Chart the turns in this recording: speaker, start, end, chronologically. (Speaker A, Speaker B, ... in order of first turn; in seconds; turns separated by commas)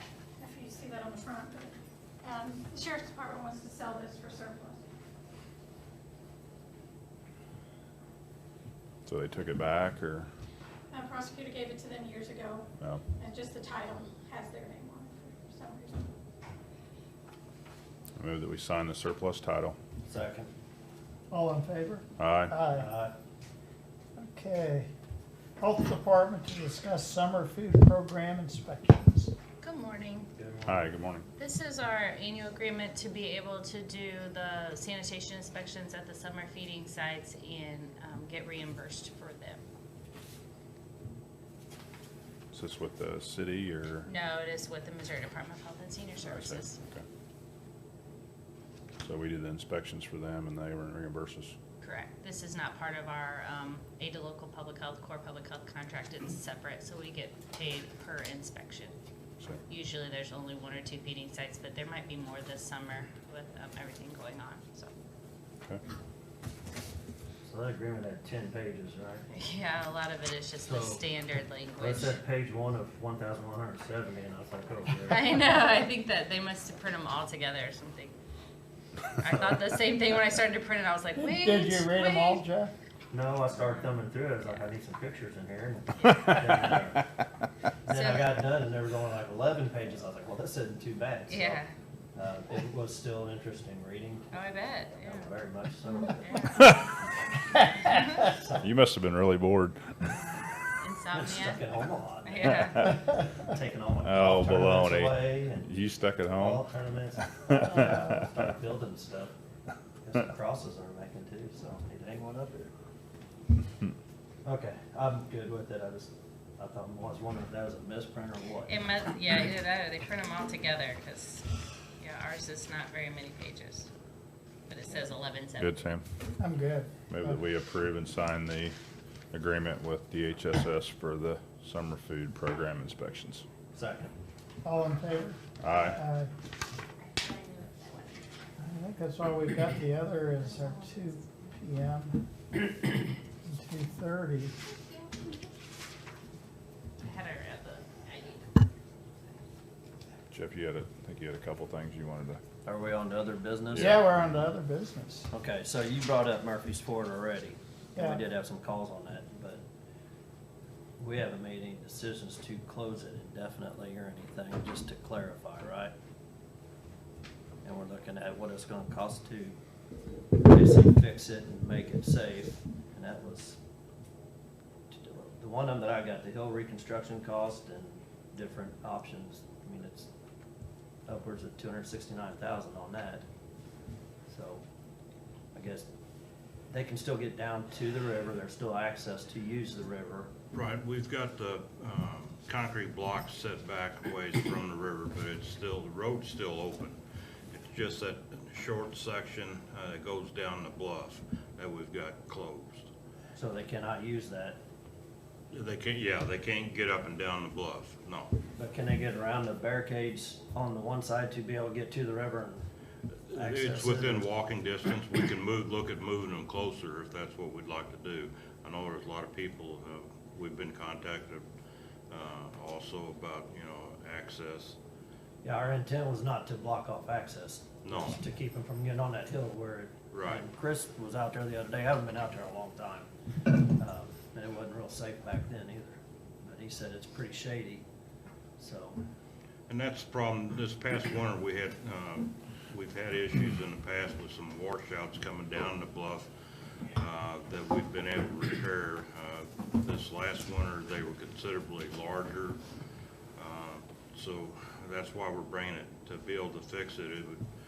Speaker A: 0.4-4.8, Speaker B: 9.1-10.3, Speaker A: 10.9-12.7, Speaker A: 13.2-16.1, Speaker B: 18.2-19.8, Speaker C: 20.1-20.5, Speaker D: 21.3-22.9, Speaker B: 22.2-22.5, Speaker C: 22.7-23.1, Speaker D: 24.2-24.9, Speaker D: 25.6-29.3, Speaker E: 29.6-30.3, Speaker C: 30.4-30.8, Speaker B: 30.6-31.2, Speaker E: 31.3-39.6, Speaker B: 42.5-44.1, Speaker E: 44.0-46.8, Speaker B: 46.2-47.0, Speaker B: 49.0-51.5, Speaker E: 51.8-58.9, Speaker E: 59.7-64.9, Speaker C: 67.4-69.3, Speaker E: 69.3-72.2, Speaker C: 70.7-71.0, Speaker C: 71.8-75.4, Speaker E: 75.1-78.1, Speaker E: 79.2-82.4, Speaker C: 79.2-79.6, Speaker D: 81.2-82.7, Speaker C: 83.1-87.0, Speaker E: 86.0-86.3, Speaker E: 87.8-88.4, Speaker C: 87.9-91.6, Speaker E: 91.3-91.7, Speaker C: 92.1-94.4, Speaker E: 94.3-95.4, Speaker C: 94.9-96.7, Speaker E: 96.1-96.8, Speaker C: 98.2-98.7, Speaker B: 98.6-99.9, Speaker E: 100.0-103.0, Speaker C: 101.1-105.7, Speaker B: 104.0-106.7, Speaker C: 106.3-109.3, Speaker C: 110.0-112.7, Speaker C: 114.4-118.8, Speaker E: 118.7-121.5, Speaker E: 122.0-123.9, Speaker E: 124.7-125.7, Speaker B: 125.6-126.0, Speaker D: 126.4-127.4, Speaker B: 127.1-128.8, Speaker B: 129.3-133.4, Speaker C: 133.7-134.1, Speaker D: 134.6-136.3, Speaker B: 135.6-136.0, Speaker E: 137.0-138.4, Speaker D: 138.6-142.2, Speaker E: 140.4-141.3, Speaker D: 143.4-144.5, Speaker E: 144.7-145.4, Speaker E: 147.0-148.7, Speaker B: 150.3-152.4, Speaker C: 152.6-153.9, Speaker B: 153.7-154.0, Speaker D: 153.8-155.3, Speaker C: 155.3-159.6, Speaker C: 161.0-165.9, Speaker C: 167.6-169.5, Speaker C: 170.4-173.6, Speaker C: 174.9-180.1, Speaker C: 181.1-183.2, Speaker C: 184.3-184.6, Speaker C: 185.5-185.9, Speaker C: 186.7-190.3, Speaker F: 190.5-197.0, Speaker F: 197.5-202.9, Speaker C: 203.3-204.6, Speaker F: 205.5-208.3, Speaker C: 208.6-212.6, Speaker F: 213.3-221.4, Speaker C: 213.3-214.3, Speaker F: 222.1-224.8, Speaker C: 225.4-237.8, Speaker F: 227.8-228.2, Speaker F: 230.1-230.4, Speaker C: 238.6-239.0, Speaker F: 239.7-246.3, Speaker F: 246.9-252.6, Speaker F: 253.3-257.4